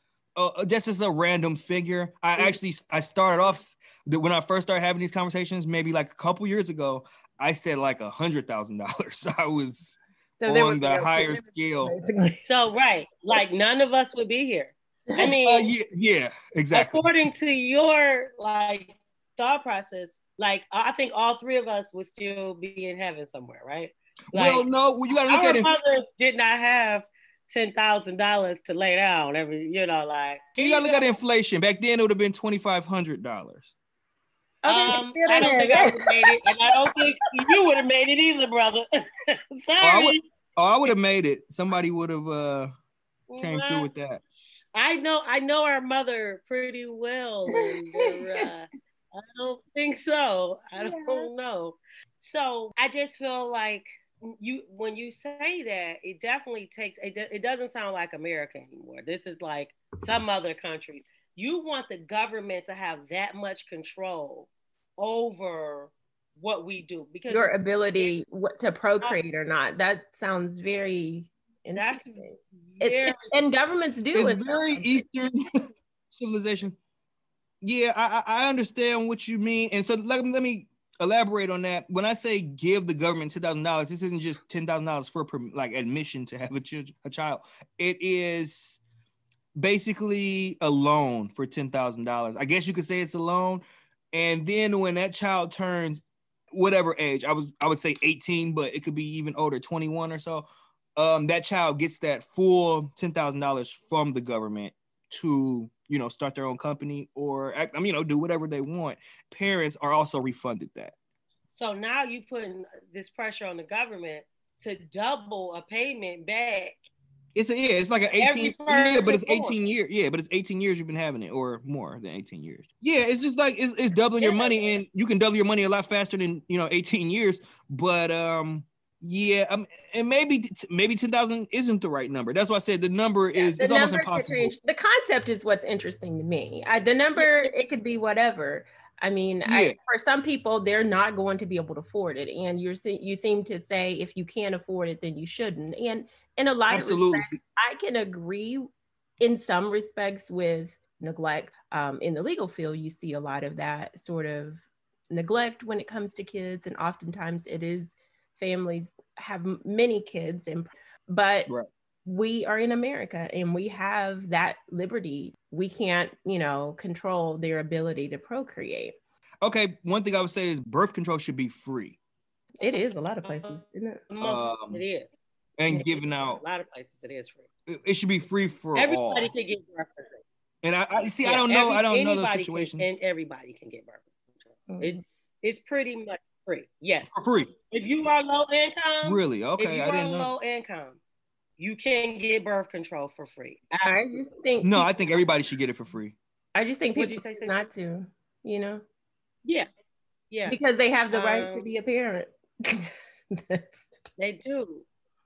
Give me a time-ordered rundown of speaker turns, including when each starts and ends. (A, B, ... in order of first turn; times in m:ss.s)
0:00.4-0:12.0 A
0:10.4-0:12.5 B
0:12.4-0:15.7 C
0:15.2-0:17.2 A
0:16.7-0:24.6 C
0:24.3-0:25.7 A
0:25.3-0:31.1 C
0:30.6-0:33.7 A
0:34.6-0:36.3 B
0:34.7-0:40.2 C
0:39.8-0:42.7 A
0:43.3-0:43.9 C
0:43.4-0:44.2 A
0:44.8-1:08.1 C
0:47.5-0:48.5 B
0:50.8-0:51.3 B
1:07.3-1:15.0 B
1:11.8-1:13.4 C
1:14.1-1:15.4 A
1:16.1-1:16.8 A
1:17.6-1:28.8 A
1:29.6-1:51.0 A
1:51.5-1:56.7 C
1:57.4-2:14.5 A
1:58.2-1:59.6 C
2:04.2-2:04.7 C
2:13.6-2:28.7 B
2:17.2-2:17.5 C
2:19.4-2:19.8 A
2:26.7-2:27.3 A
2:29.2-2:41.5 B
2:42.1-2:49.0 B
2:49.4-2:52.0 A
2:52.6-2:54.0 B
2:53.2-2:53.6 C
2:54.1-2:55.1 C
2:54.2-2:54.8 A
2:55.6-2:56.4 A
2:55.7-2:57.5 C
2:57.7-2:59.3 A
2:58.8-3:00.2 C
3:00.6-3:02.9 A
3:01.2-3:04.1 C
3:04.7-3:05.0 B
3:04.8-3:07.1 C
3:07.1-3:07.5 A
3:07.7-3:11.0 C
3:09.0-3:10.3 A
3:11.6-3:13.7 C
3:13.7-3:14.9 B
3:14.6-3:16.2 A
3:16.6-3:18.8 B
3:17.0-3:17.6 C
3:20.3-3:20.6 C
3:20.5-3:24.0 B
3:21.1-3:21.7 C
3:24.2-3:24.9 C